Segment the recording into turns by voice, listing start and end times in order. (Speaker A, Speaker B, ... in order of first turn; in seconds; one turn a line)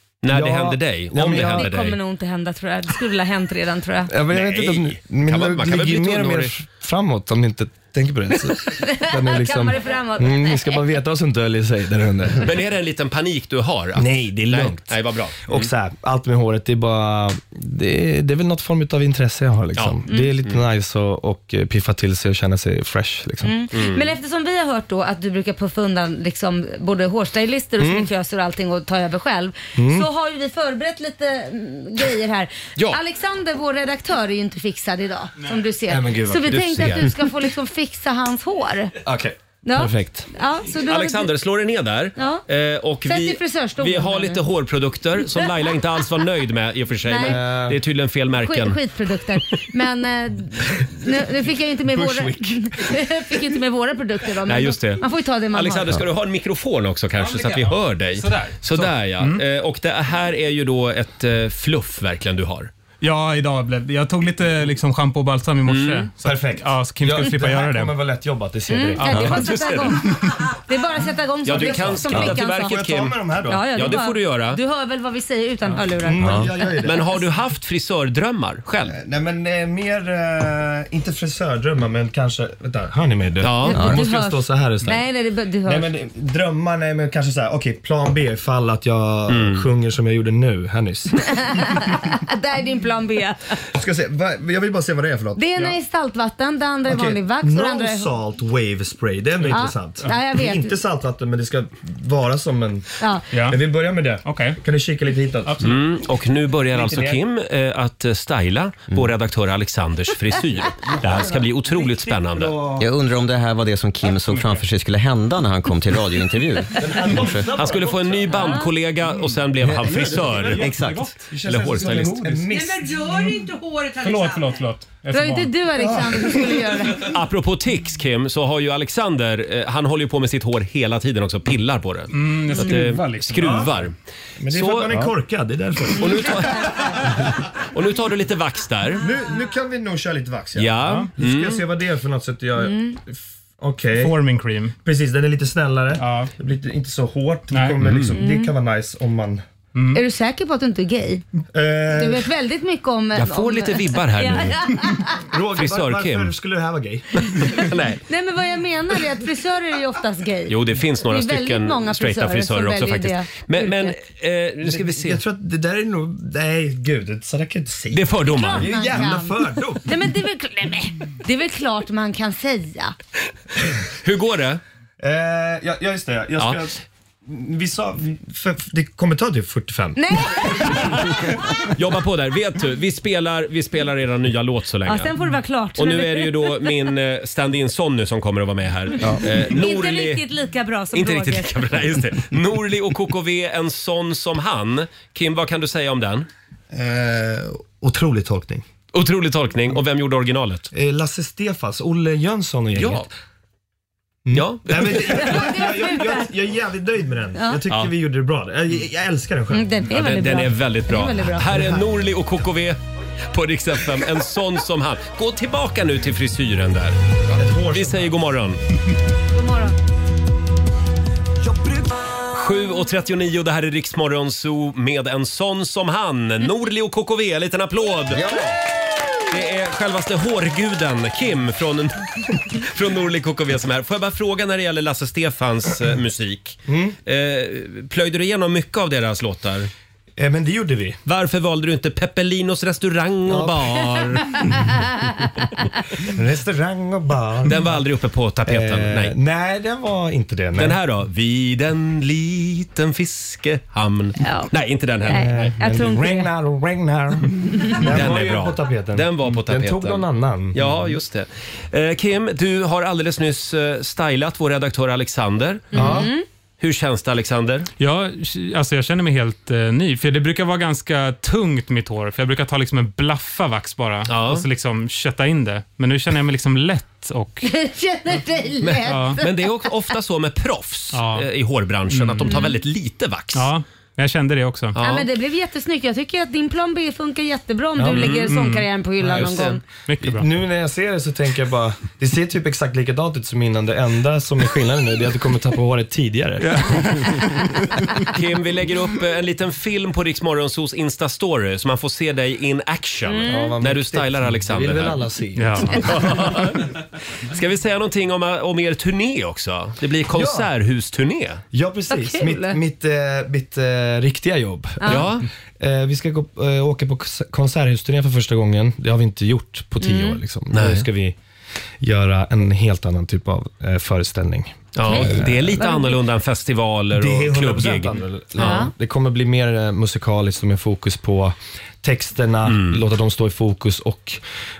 Speaker A: 0.2-1.9
Speaker B: 0.3-1.7
Speaker C: 1.2-4.1
Speaker B: 4.1-12.5
Speaker A: 4.3-6.5
Speaker C: 8.7-10.8
Speaker A: 12.4-15.7
Speaker B: 13.9-23.6
Speaker A: 19.8-20.6
Speaker C: 20.1-20.3
Speaker C: 23.4-38.9
Speaker A: 23.7-24.0
Speaker B: 27.8-28.1
Speaker B: 29.8-30.1
Speaker B: 35.9-37.0
Speaker A: 36.5-37.1
Speaker B: 39.0-40.3
Speaker C: 39.6-41.3
Speaker A: 40.9-48.8
Speaker C: 42.2-42.4
Speaker C: 43.0-44.4
Speaker C: 47.0-47.4
Speaker B: 47.2-47.8
Speaker C: 48.4-56.0
Speaker B: 51.8-53.4
Speaker A: 54.5-55.0
Speaker A: 55.5-62.7
Speaker D: 57.2-59.4
Speaker D: 63.0-67.9
Speaker A: 65.7-66.1
Speaker B: 66.2-69.4
Speaker C: 68.7-72.8
Speaker A: 69.1-70.2
Speaker A: 71.4-73.2
Speaker B: 71.5-74.0
Speaker C: 73.5-76.5
Speaker A: 73.7-74.6
Speaker B: 76.0-77.0
Speaker A: 76.8-79.0
Speaker B: 78.8-85.0
Speaker A: 83.4-84.0
Speaker C: 83.7-85.9
Speaker B: 85.6-91.1
Speaker A: 89.3-89.6
Speaker C: 91.5-93.5
Speaker B: 93.7-95.4
Speaker C: 95.3-98.2
Speaker B: 96.9-102.8
Speaker D: 99.4-100.1
Speaker C: 99.5-100.8
Speaker C: 103.0-103.2
Speaker D: 103.3-103.6
Speaker B: 103.4-105.8
Speaker D: 104.2-104.6
Speaker A: 105.6-112.5
Speaker B: 106.7-107.2
Speaker B: 110.7-112.9
Speaker E: 112.8-117.5
Speaker D: 114.2-114.6
Speaker B: 116.8-118.7
Speaker A: 117.5-120.7
Speaker C: 118.4-118.7
Speaker B: 119.6-123.0
Speaker E: 120.6-121.1
Speaker D: 120.8-121.0
Speaker A: 121.4-122.4
Speaker F: 122.5-124.6
Speaker D: 124.0-125.5
Speaker C: 125.1-127.1
Speaker B: 125.8-126.9
Speaker A: 127.0-133.9
Speaker D: 132.1-133.7
Speaker B: 133.3-133.8
Speaker B: 134.4-137.3
Speaker A: 134.5-135.0
Speaker A: 136.0-137.1
Speaker A: 137.7-139.0
Speaker B: 139.0-144.1
Speaker A: 140.6-141.6
Speaker D: 140.8-141.1
Speaker C: 142.6-142.9
Speaker D: 144.0-144.7
Speaker B: 144.8-149.4
Speaker D: 146.0-146.3
Speaker D: 147.5-147.8
Speaker A: 147.8-148.2
Speaker C: 148.2-148.5
Speaker D: 149.7-150.0
Speaker C: 149.9-151.2
Speaker B: 151.5-152.3
Speaker C: 151.9-155.2
Speaker A: 153.1-154.6
Speaker B: 155.2-157.7
Speaker A: 155.5-156.3
Speaker A: 157.2-158.0
Speaker C: 158.1-163.9
Speaker A: 160.5-165.2
Speaker B: 164.6-169.9
Speaker A: 167.9-168.9
Speaker C: 168.2-172.9
Speaker A: 174.0-174.6
Speaker B: 175.0-181.2
Speaker A: 176.4-176.6
Speaker C: 179.9-181.1
Speaker A: 181.7-185.1
Speaker C: 184.8-186.7
Speaker A: 185.8-190.2
Speaker C: 189.1-191.6
Speaker A: 190.9-196.3
Speaker B: 196.7-198.6
Speaker A: 198.9-200.7
Speaker B: 200.7-203.1
Speaker A: 202.8-203.1
Speaker B: 204.3-209.7
Speaker A: 204.3-205.4
Speaker C: 204.9-206.3
Speaker C: 207.4-207.6
Speaker C: 209.5-211.5
Speaker A: 209.9-212.8
Speaker B: 211.4-211.8
Speaker A: 213.3-217.0
Speaker B: 217.3-218.2
Speaker A: 217.7-218.6
Speaker C: 219.3-219.7
Speaker B: 221.4-221.9
Speaker A: 222.3-228.4
Speaker E: 228.1-228.5
Speaker A: 229.3-239.7
Speaker B: 236.7-236.9
Speaker B: 240.2-241.0
Speaker A: 241.1-244.5
Speaker B: 243.3-244.2
Speaker B: 246.0-247.8
Speaker A: 247.4-249.1
Speaker B: 248.4-250.8
Speaker A: 250.6-255.5
Speaker C: 254.2-254.5
Speaker B: 255.0-260.9
Speaker C: 255.1-256.3
Speaker A: 257.8-265.9
Speaker B: 265.7-266.1
Speaker C: 265.7-266.2
Speaker A: 266.6-267.7
Speaker D: 267.8-277.5
Speaker A: 274.1-274.4
Speaker C: 277.4-279.7
Speaker A: 278.6-283.5
Speaker D: 278.9-279.2
Speaker D: 280.9-281.3
Speaker D: 281.9-282.4
Speaker C: 282.2-282.5
Speaker D: 283.3-284.7
Speaker A: 284.7-285.1
Speaker C: 284.8-289.6
Speaker B: 287.8-288.1
Speaker A: 287.9-288.3
Speaker D: 288.3-288.7
Speaker B: 289.0-289.4
Speaker A: 289.1-289.6
Speaker D: 289.9-290.3
Speaker B: 290.0-297.0
Speaker D: 296.4-297.4
Speaker A: 298.1-305.0
Speaker C: 303.1-303.6
Speaker B: 303.2-305.8
Speaker D: 305.4-306.5
Speaker A: 305.8-306.6
Speaker A: 307.3-311.4
Speaker B: 310.1-310.5
Speaker B: 311.5-321.1
Speaker C: 311.9-312.6
Speaker C: 314.8-315.1
Speaker A: 314.9-315.2
Speaker C: 319.8-320.2
Speaker A: 320.5-320.9
Speaker B: 321.8-325.7
Speaker A: 324.7-328.7
Speaker C: 324.9-326.0
Speaker B: 326.9-334.2
Speaker C: 328.4-328.7
Speaker A: 332.5-332.8